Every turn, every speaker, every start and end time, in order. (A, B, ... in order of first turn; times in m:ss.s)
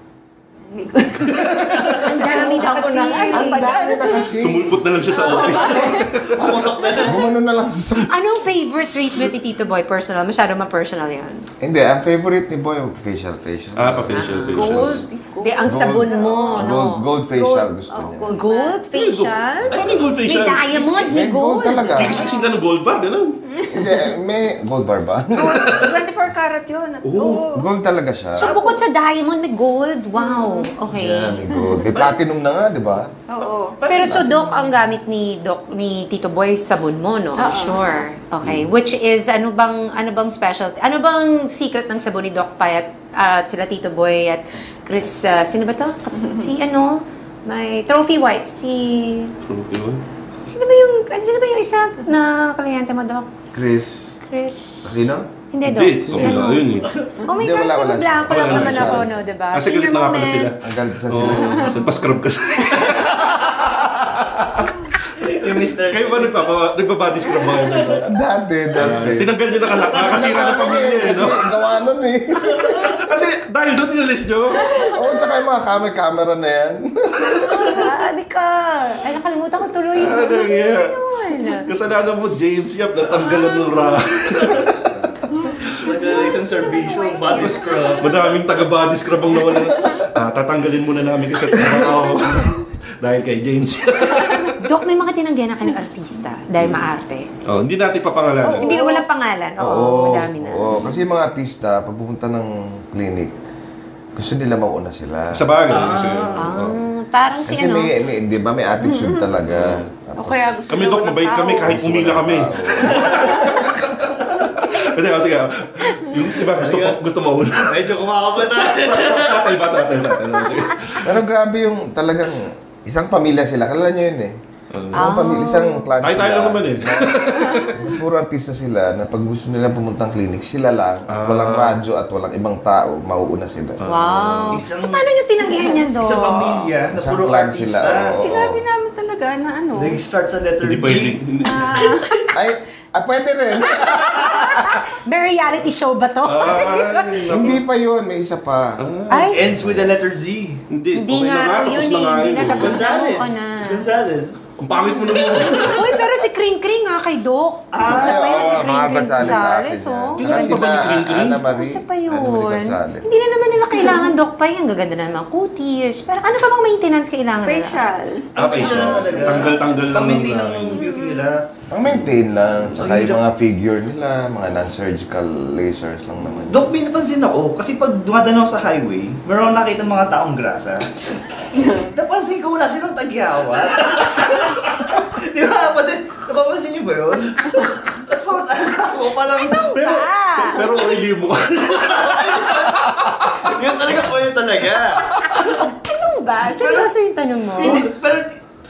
0:00.7-0:04.3 A
0:01.9-0:04.1 B
0:03.2-0:04.8 C
0:04.4-0:06.8 D
0:05.1-0:06.1 A
0:05.3-0:07.2 E
0:07.0-0:08.1 C
0:08.0-0:11.4 B
0:11.6-0:15.0 C
0:13.8-0:15.0 D
0:14.1-0:14.6 B
0:14.5-0:16.7 A
0:15.4-0:17.0 B
0:15.6-0:18.4 C
0:17.3-0:18.9 A
0:18.3-0:22.1 B
0:18.9-0:21.2 D
0:19.6-0:20.2 C
0:21.0-0:22.2 C
0:22.0-0:23.4 D
0:23.5-0:24.1 A
0:23.7-0:25.8 C
0:25.3-0:27.6 A
0:27.0-0:27.4 D
0:27.5-0:28.5 C
0:28.4-0:31.4 B
0:28.4-0:28.8 A
0:30.2-0:30.7 A
0:30.9-0:33.1 C
0:31.5-0:31.8 A
0:33.3-0:33.8 A
0:33.8-0:34.7 E
0:33.9-0:49.3 B
0:37.4-0:38.0 A
0:46.2-0:46.5 A
0:49.4-0:50.0 D
0:50.5-0:53.3 B
0:53.5-0:54.1 C
0:54.3-1:00.5 B
0:54.8-0:55.3 C
0:55.6-0:56.9 D
0:57.3-0:59.1 C
0:58.3-1:03.6 D
1:00.6-1:01.7 C
1:02.8-1:03.3 E
1:04.0-1:04.3 C
1:05.2-1:06.5 E
1:05.9-1:08.1 D
1:07.6-1:08.0 E
1:08.0-1:09.3 C
1:08.8-1:11.4 D
1:09.9-1:12.8 C
1:12.8-1:14.8 D
1:14.9-1:17.7 C
1:17.4-1:21.7 B
1:19.9-1:20.9 D
1:21.6-1:24.8 D
1:25.8-1:28.2 E
1:26.1-1:28.0 B
1:28.0-1:34.6 D
1:34.6-1:37.3 B
1:36.6-1:36.9 D
1:37.4-1:38.8 D
1:38.4-1:39.0 A
1:38.6-1:40.7 B
1:39.6-1:43.3 C
1:44.2-1:45.4 C
1:45.3-1:46.8 D
1:45.7-1:46.5 E
1:46.4-1:47.9 B
1:47.4-1:50.6 C
1:48.8-1:49.3 A
1:49.5-1:49.9 D
1:50.2-1:51.7 A
1:50.7-2:01.2 D
1:51.6-1:53.7 C
1:52.9-1:53.7 A
1:56.5-1:57.0 E
1:57.6-1:59.6 E
2:01.0-2:04.4 C
2:04.7-2:05.1 D
2:04.9-2:13.8 C
2:04.9-2:05.9 B
2:06.0-2:07.9 D
2:11.1-2:11.8 D
2:13.8-2:14.6 D
2:13.8-2:16.5 B
2:14.5-2:15.0 E
2:16.0-2:18.2 E
2:16.9-2:18.6 C
2:18.2-2:20.0 A
2:19.8-2:21.2 E
2:20.6-2:22.1 D
2:21.4-2:22.0 A
2:22.3-2:24.8 C
2:23.6-2:27.2 B
2:26.2-2:27.6 D
2:27.3-2:28.8 C
2:28.8-2:29.3 D
2:29.1-2:29.4 B
2:29.3-2:30.6 E
2:29.4-2:29.9 C
2:30.7-2:33.0 D
2:31.0-2:33.8 B
2:32.5-2:34.6 E
2:34.6-2:35.9 D
2:35.1-2:40.6 B
2:37.7-2:38.6 E
2:37.9-2:43.0 C
2:40.2-2:41.4 D
2:41.3-2:47.8 B
2:47.4-2:49.7 A
2:48.3-2:51.4 E
2:48.4-2:50.6 D
2:50.3-2:50.8 C
2:50.8-2:51.3 A
2:51.7-2:56.7 C
2:52.8-2:53.2 E
2:56.5-3:01.0 E
3:01.6-3:01.9 A
3:01.9-3:10.0 E
3:09.3-3:10.6 B
3:09.7-3:13.5 D
3:11.7-3:15.2 E
3:15.1-3:17.8 B
3:16.5-3:16.9 E
3:17.5-3:18.4 E